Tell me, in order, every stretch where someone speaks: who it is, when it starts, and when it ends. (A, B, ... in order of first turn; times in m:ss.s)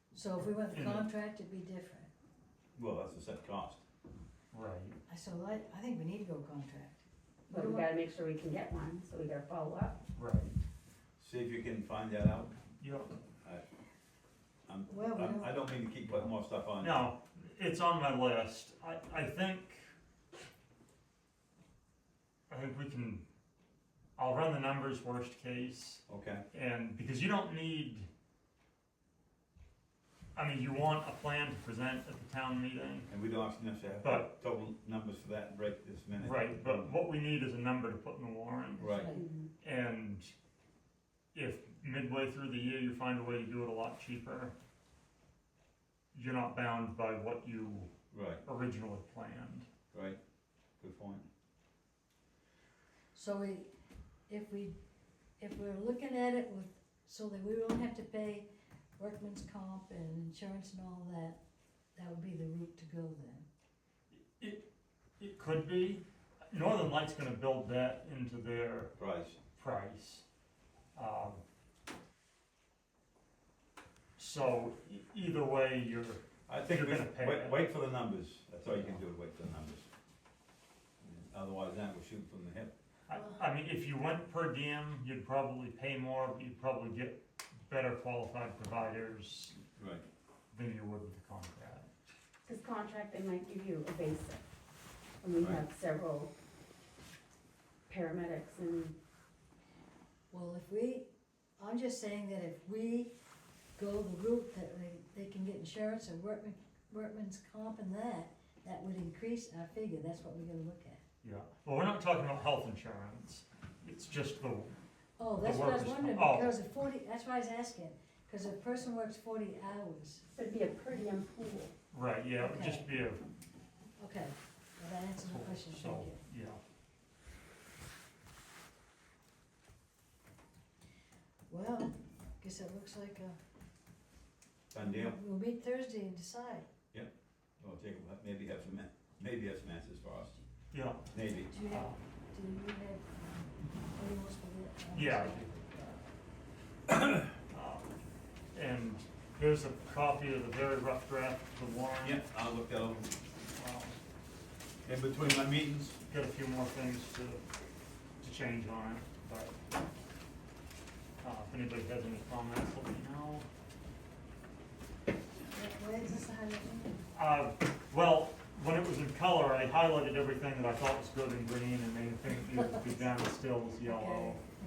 0:00.1-0:02.1 A
0:00.4-0:01.1 B
0:02.8-0:03.8 C
0:04.5-0:05.0 B
0:05.1-0:07.9 A
0:07.5-0:10.0 D
0:10.1-0:10.6 B
0:11.2-0:12.5 C
0:12.8-0:13.1 B
0:14.7-0:17.0 C
0:14.9-0:15.5 A
0:16.1-0:19.8 B
0:22.5-0:23.2 B
0:24.2-0:28.1 B
0:26.1-0:26.4 C
0:30.3-0:33.1 B
0:33.1-0:36.9 C
0:34.0-0:34.3 B
0:36.2-0:39.0 B
0:38.8-0:39.1 C
0:38.8-0:39.3 A
0:39.1-0:39.5 D
0:39.6-0:40.3 B
0:41.3-0:44.5 B
0:46.1-0:47.9 B
0:48.1-0:48.4 C
0:48.4-0:49.6 B
0:49.9-0:50.2 C
0:50.8-0:51.2 C
0:53.1-0:53.7 A
0:54.3-0:54.8 A
0:55.4-1:01.4 A
1:02.0-1:03.5 A
1:04.4-1:04.6 B
1:05.2-1:08.9 B
1:09.0-1:09.4 C
1:09.5-1:10.2 B
1:10.9-1:11.4 B
1:14.2-1:17.6 B
1:16.5-1:19.9 C
1:18.7-1:19.0 B
1:21.0-1:22.7 C
1:23.1-1:29.6 B
1:23.1-1:23.4 A
1:29.8-1:30.0 C
1:30.5-1:32.1 B
1:32.4-1:34.4 D
1:35.2-1:36.3 D
1:35.4-1:35.6 C
1:37.9-1:38.9 D
1:40.3-1:41.1 A
1:41.6-1:43.1 A
1:43.8-1:51.0 A
1:51.2-1:54.7 B
1:55.2-2:00.2 A
1:55.4-1:56.6 B
2:00.3-2:01.7 D
2:01.9-2:03.2 B
2:02.4-2:02.8 A
2:04.0-2:06.2 A
2:05.3-2:06.6 B
2:11.5-2:13.4 A
2:14.7-2:15.2 C
2:14.8-2:16.7 A
2:16.9-2:20.4 C
2:20.7-2:22.0 B
2:21.1-2:21.5 C
2:21.4-2:26.1 A
2:24.9-2:25.5 B
2:27.0-2:27.2 C
2:27.5-2:27.9 B
2:28.5-2:32.2 B
2:32.0-2:33.1 C
2:33.5-2:34.0 B
2:34.8-2:36.0 C
2:36.1-2:37.4 B
2:38.2-2:39.5 B
2:41.2-2:43.5 B
2:45.5-2:47.0 A
2:47.1-2:54.4 B
2:52.5-2:53.0 A
2:53.8-2:54.4 A